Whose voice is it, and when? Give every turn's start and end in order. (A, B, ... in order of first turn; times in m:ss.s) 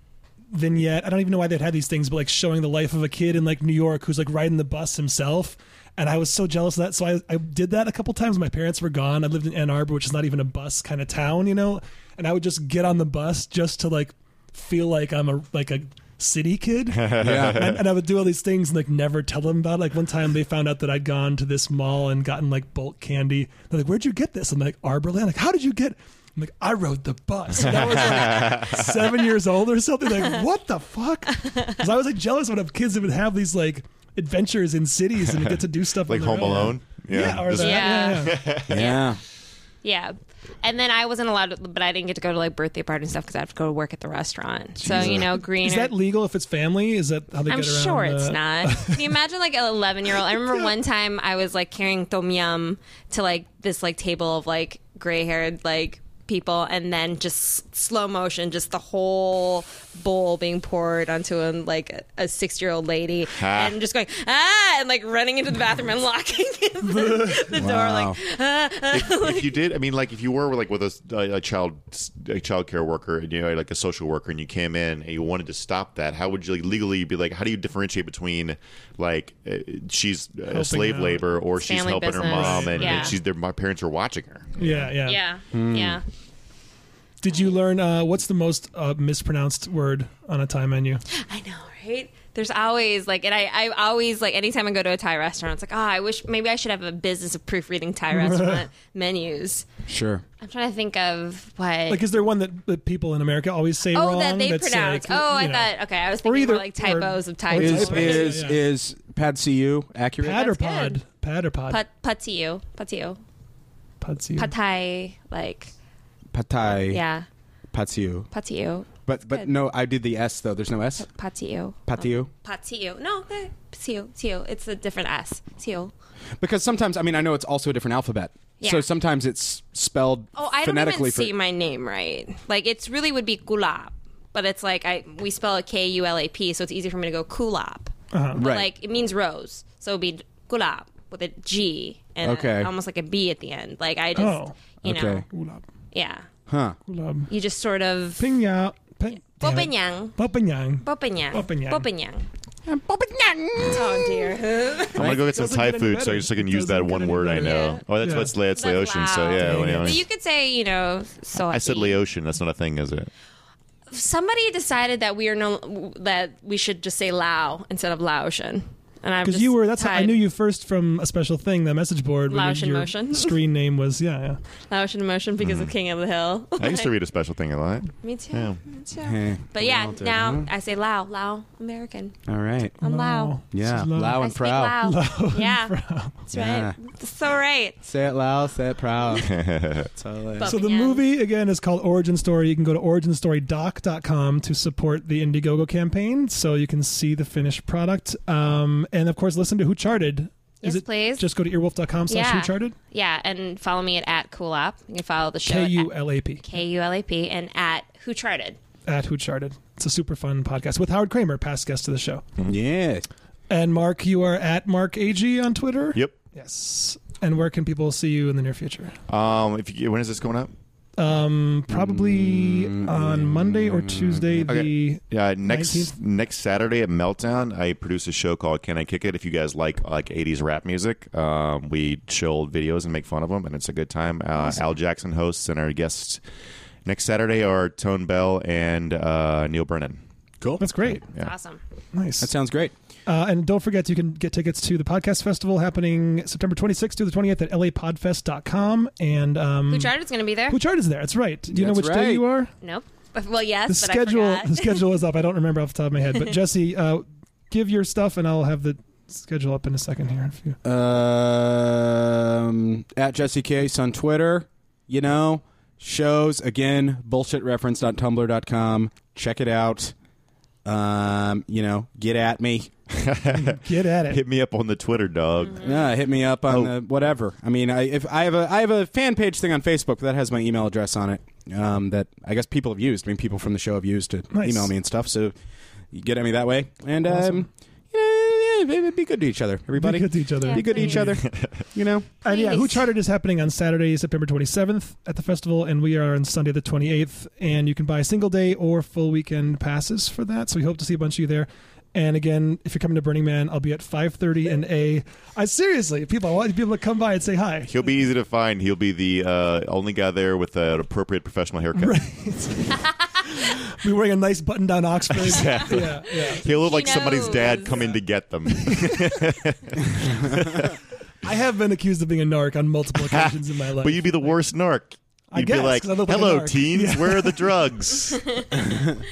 0:00.5-0:38.4 A
0:16.9-0:17.8 B
0:17.2-0:17.6 C
0:27.5-0:29.1 B
0:31.4-0:31.7 D
0:35.3-0:39.0 B
0:37.5-0:39.1 D
0:38.7-0:39.2 C
0:39.8-0:45.9 D
0:44.8-0:45.3 C
0:44.8-0:45.2 B
0:45.6-0:49.1 A
0:47.5-1:09.6 D
1:03.3-1:03.8 B
1:06.8-1:07.5 A
1:07.5-1:08.2 C
1:08.9-1:24.8 B
1:20.5-1:21.2 A
1:21.6-1:23.2 D
1:22.2-1:23.2 A
1:24.6-1:25.2 A
1:25.0-1:26.0 D
1:25.5-1:26.0 C
1:27.2-1:31.0 A
1:31.1-1:39.7 D
1:38.1-1:38.6 A
1:39.9-1:40.2 C
1:40.4-1:42.0 D
1:41.9-1:45.7 A
1:43.9-1:48.4 D
1:46.2-1:48.6 A
1:47.5-1:50.4 C
1:50.2-1:51.8 A
1:50.3-1:51.0 D
1:51.7-1:53.2 D
1:54.0-1:54.5 A
1:54.4-1:55.7 D
1:56.3-1:57.0 C
1:56.9-1:57.2 D
1:57.7-1:58.3 C
1:58.3-1:59.5 D
1:59.0-2:01.1 C
2:01.0-2:05.9 D
2:01.9-2:02.3 C
2:06.4-2:11.3 C
2:08.6-2:08.9 D
2:10.4-2:25.3 D
2:18.1-2:18.4 A
2:18.3-2:18.7 C
2:22.2-2:22.7 C
2:24.2-2:24.6 A
2:24.8-2:25.2 C
2:25.3-2:25.6 A
2:25.9-2:26.2 D
2:26.5-2:26.8 C
2:26.9-2:27.3 A
2:27.3-2:28.2 D
2:28.2-2:31.8 A
2:29.4-2:30.2 D
2:30.8-2:32.3 D
2:32.6-2:34.4 C
2:33.6-2:35.1 D
2:34.9-2:40.0 B
2:35.0-2:38.3 A
2:37.3-2:37.8 D
2:38.5-2:42.0 D
2:39.4-2:39.9 A
2:41.3-2:43.1 B
2:43.9-2:50.2 D
2:49.2-2:54.4 A
2:52.3-2:53.4 D
2:54.7-2:56.9 D
2:55.4-2:55.7 B
2:56.6-2:58.6 B
2:58.0-3:02.2 D
2:58.9-3:00.5 C
3:02.3-3:02.7 C
3:02.8-3:03.4 D
3:02.8-3:06.2 A
3:03.5-3:04.8 C
3:04.2-3:07.8 D
3:06.3-3:06.8 C
3:07.8-3:09.3 C
3:09.2-3:09.9 B
3:09.8-3:10.5 C
3:10.4-3:11.0 D
3:10.4-3:22.8 A
3:20.6-3:21.2 D
3:22.1-3:28.6 D
3:25.4-3:26.4 A
3:28.9-3:32.2 A
3:32.4-3:33.1 C
3:33.5-3:39.0 A
3:39.1-3:40.5 B
3:41.0-3:45.9 A
3:41.7-3:44.5 C
3:44.4-3:56.2 B
3:56.8-4:00.0 B
4:00.6-4:01.0 A
4:00.8-4:01.3 B
4:01.2-4:01.6 D
4:01.9-4:02.3 A
4:02.2-4:02.7 C
4:03.0-4:09.9 A
4:09.7-4:10.6 D
4:10.5-4:12.5 A
4:11.5-4:12.2 C
4:12.6-4:14.8 D
4:13.7-4:20.6 A
4:20.6-4:29.9 C
4:30.6-4:32.7 C
4:32.9-4:35.8 B
4:33.3-4:34.2 A
4:35.6-4:45.3 C
4:36.5-4:36.7 B
4:44.3-4:44.7 A
4:45.9-4:52.0 C
4:47.1-4:47.4 A
4:49.7-4:50.9 A
4:50.4-4:51.2 D
4:51.1-4:51.6 B
4:52.2-5:07.8 A
4:52.2-4:52.8 D
5:07.7-5:12.0 B
5:11.8-5:16.4 A
5:15.2-5:20.7 B
5:15.3-5:17.9 D
5:18.5-5:19.2 A
5:21.2-5:24.4 A
5:23.0-5:28.6 B
5:25.3-5:27.5 A